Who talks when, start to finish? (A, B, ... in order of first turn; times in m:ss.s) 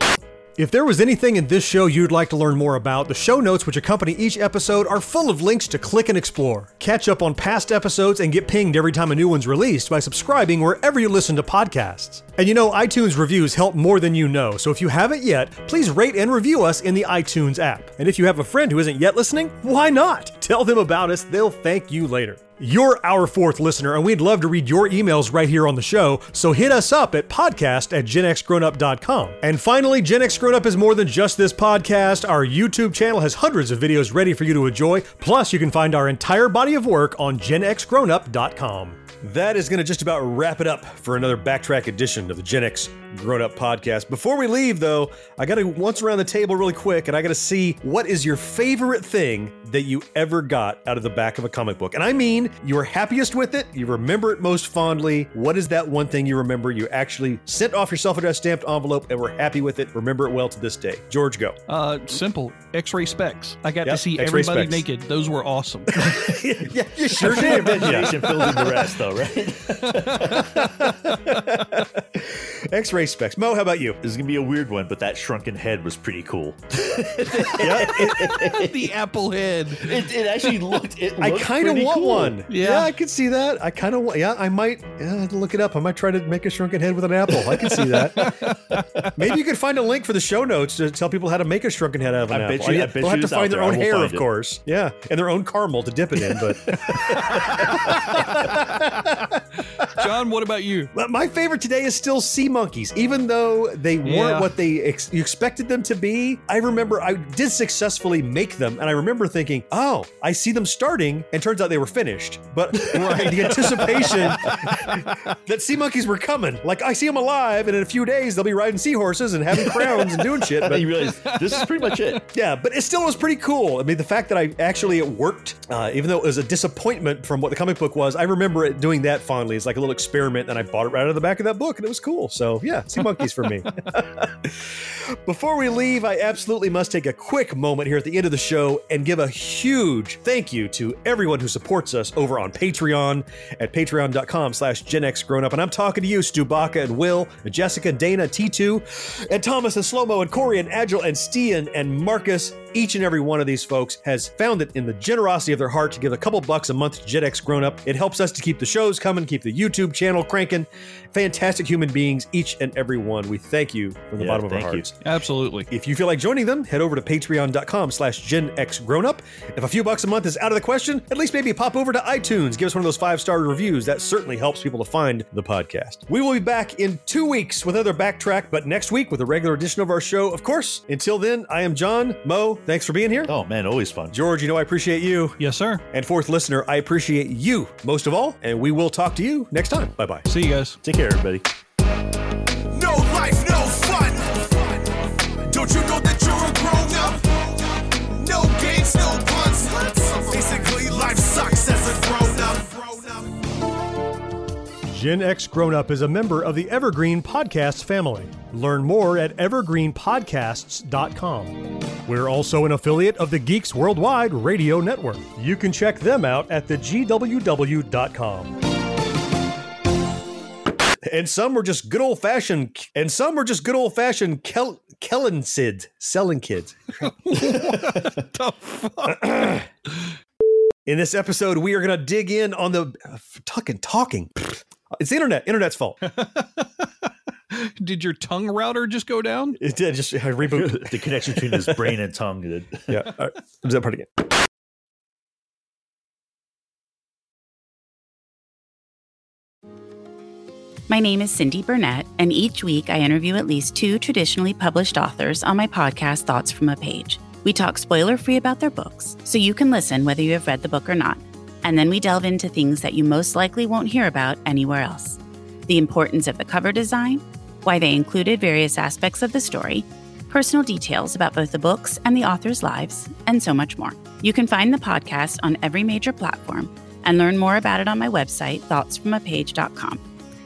0:00.6-1:01.6 A
1:01.7-1:06.1 B
1:03.8-1:04.8 A
1:05.9-1:08.9 A
1:07.1-1:10.7 C
1:07.7-1:08.0 B
1:10.1-1:10.4 B
1:10.3-1:14.0 A
1:14.0-1:18.9 C
1:17.6-1:18.4 A
1:17.6-1:20.1 B
1:19.8-1:22.4 C
1:21.2-1:28.5 A
1:22.5-1:22.9 B
1:27.8-1:29.2 B
1:29.1-1:40.0 A
1:32.3-1:34.2 C
1:36.8-1:37.7 C
1:37.9-1:38.6 B
1:39.9-1:40.9 B
1:40.9-2:00.9 A
1:44.0-1:44.5 B
1:52.9-1:54.7 B
2:00.6-2:02.2 C
2:01.0-2:02.2 B
2:02.3-2:44.9 A
2:44.2-2:44.9 C
2:45.0-2:45.7 B
2:45.7-3:03.3 A
3:03.3-3:04.1 C
3:04.1-3:05.4 A
3:05.4-3:05.8 B
3:05.9-3:10.2 A
3:10.2-3:10.8 B
3:10.8-3:11.4 C
3:12.7-3:23.3 D
3:24.9-3:38.6 A
3:41.0-3:48.0 A
3:47.0-3:49.3 B
3:49.0-3:49.7 A
3:50.8-3:56.0 A
3:56.0-3:59.6 B
3:59.6-4:02.0 A
4:00.4-4:03.0 C
4:02.9-4:04.3 A
4:10.9-4:40.0 E